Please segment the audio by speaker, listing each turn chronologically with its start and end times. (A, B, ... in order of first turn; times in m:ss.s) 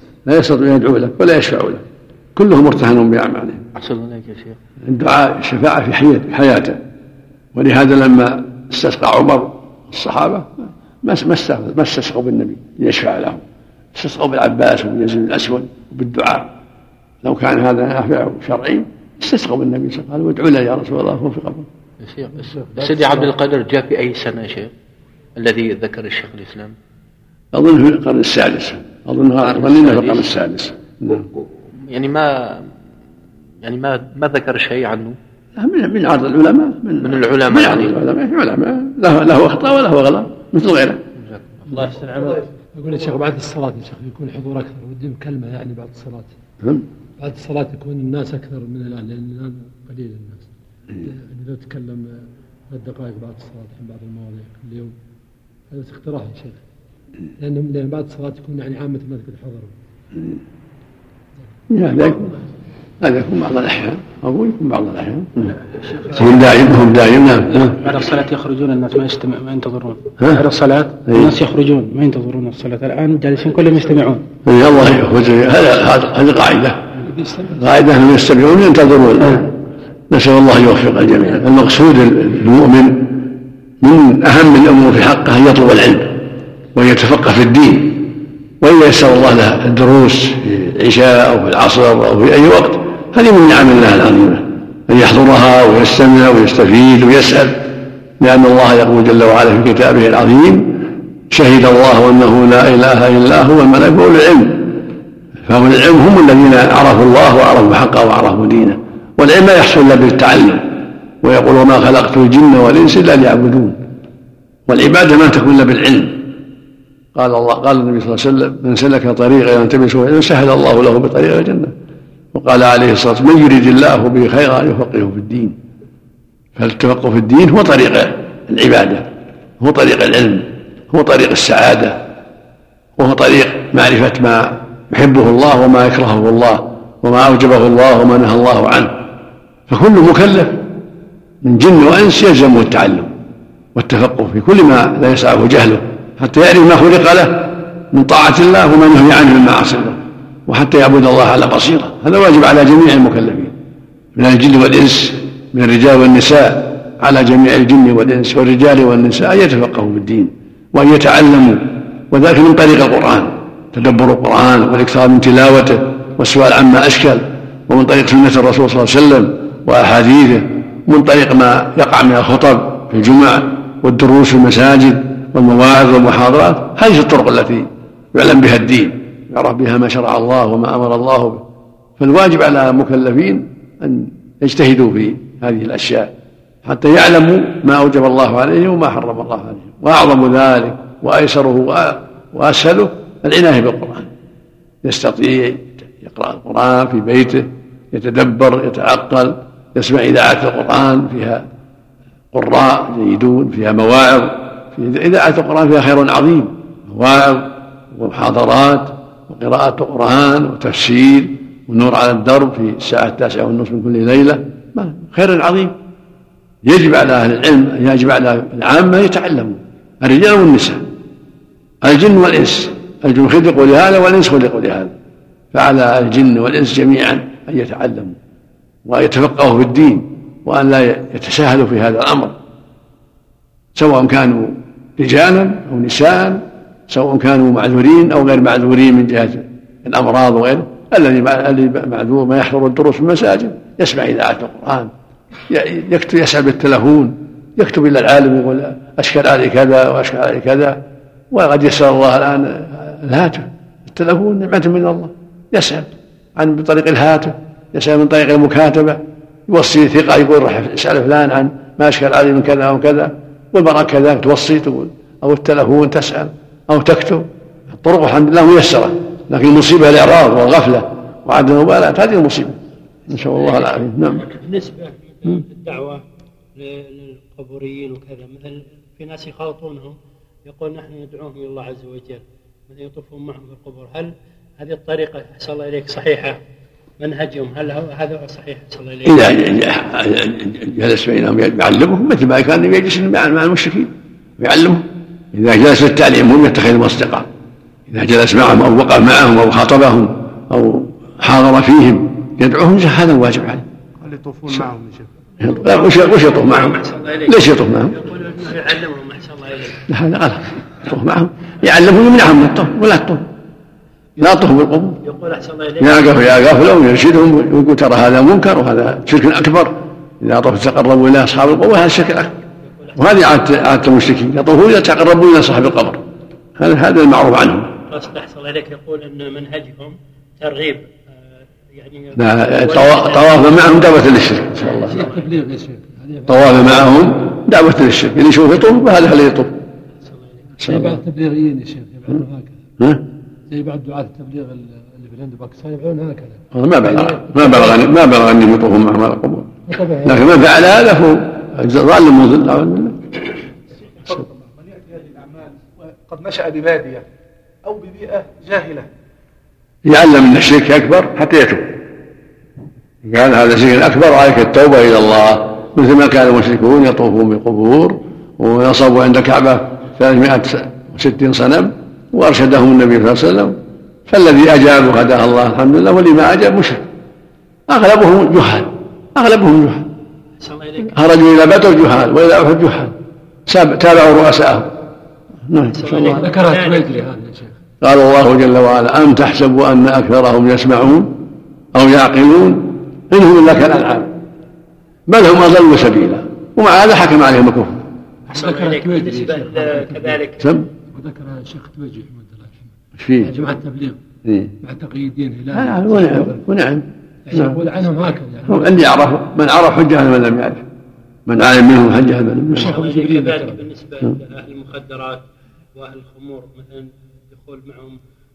0:00.2-0:01.8 A
0:02.4-0:03.6 A
0:03.8-0:04.6 B
0:04.8-0:06.8 A
0:07.5-0:13.4 A
0:14.0-0:16.5 A
0:17.2-0:21.7 A
0:22.0-0:24.7 B
0:25.4-0:26.7 B
0:27.5-0:31.2 A
0:29.4-0:30.3 B
0:31.7-0:32.7 B
0:33.6-0:35.2 B
0:35.6-0:41.0 A
0:37.0-0:38.0 B
0:41.2-0:41.9 B
0:41.7-0:46.3 C
0:47.2-0:54.9 C
0:55.7-0:56.6 C
0:57.4-0:59.7 C
1:01.7-1:02.3 A
1:03.0-1:05.6 A
1:06.1-1:07.8 A
1:07.6-1:14.2 D
1:10.2-1:10.5 A
1:11.1-1:11.4 A
1:14.4-1:16.8 A
1:17.5-1:19.5 A
1:20.1-1:26.2 A
1:26.8-1:44.8 A
1:45.4-1:50.7 A
1:51.2-1:53.8 A
1:54.7-1:56.2 A
1:57.2-2:01.7 A
2:02.3-2:05.6 A
2:06.6-2:09.1 A
2:09.6-2:12.0 A
2:13.0-2:18.9 A
2:19.7-2:20.6 A
2:21.4-2:23.1 A
2:23.8-2:33.5 A
2:34.2-3:01.4 A
3:02.0-3:06.1 A
3:06.6-3:14.1 A
3:14.8-3:21.4 A
3:22.3-3:35.8 A
3:36.6-3:40.8 A
3:41.8-3:44.9 A
3:45.5-3:48.2 A
3:48.8-3:52.4 A
3:53.8-4:04.9 A
4:05.5-4:10.8 A
4:11.3-4:34.3 A
4:33.2-4:33.7 E
4:34.2-4:36.0 E
4:36.6-4:46.4 E
4:47.0-4:49.8 E
4:49.1-4:57.3 A
4:57.9-5:03.6 A
5:04.0-5:05.1 F
5:05.4-5:08.0 A
5:05.5-5:09.8 E
5:09.9-5:13.2 A
5:14.2-5:15.0 A
5:15.0-5:16.7 E
5:15.8-5:22.3 A
5:22.6-5:23.6 E
5:23.0-5:26.0 A
5:26.6-5:27.7 A
5:27.9-5:30.9 E
5:31.7-5:34.0 E
5:32.2-5:35.0 A
5:34.6-5:35.3 E
5:34.9-5:37.0 C
5:36.3-5:39.5 A
5:40.0-5:40.6 E
5:40.6-5:41.0 A
5:40.6-5:42.5 C
5:43.5-5:47.8 C
5:46.5-5:53.1 A
5:53.7-5:57.0 F
5:57.6-5:58.9 F
5:59.9-6:01.8 A
6:03.0-6:13.6 A
6:14.1-6:16.8 A
6:17.7-6:19.9 A
6:20.4-6:20.9 E
6:20.9-6:22.9 A
6:23.5-6:24.7 A
6:25.5-6:26.2 A
6:25.7-6:26.9 E
6:26.1-6:27.5 C
6:27.8-6:31.1 A
6:31.7-6:34.1 A
6:35.1-6:37.8 A
6:38.3-6:40.2 C
6:38.3-6:40.5 E
6:40.4-6:40.7 A
6:40.9-6:44.0 C
6:43.0-6:43.3 A
6:44.2-6:44.5 A
6:44.6-6:46.3 C
6:45.5-6:47.6 A
6:47.3-6:48.8 C
6:48.5-6:50.6 A
6:51.3-6:52.8 A
6:52.5-6:53.6 C
6:52.6-6:55.2 E
6:55.8-6:58.0 E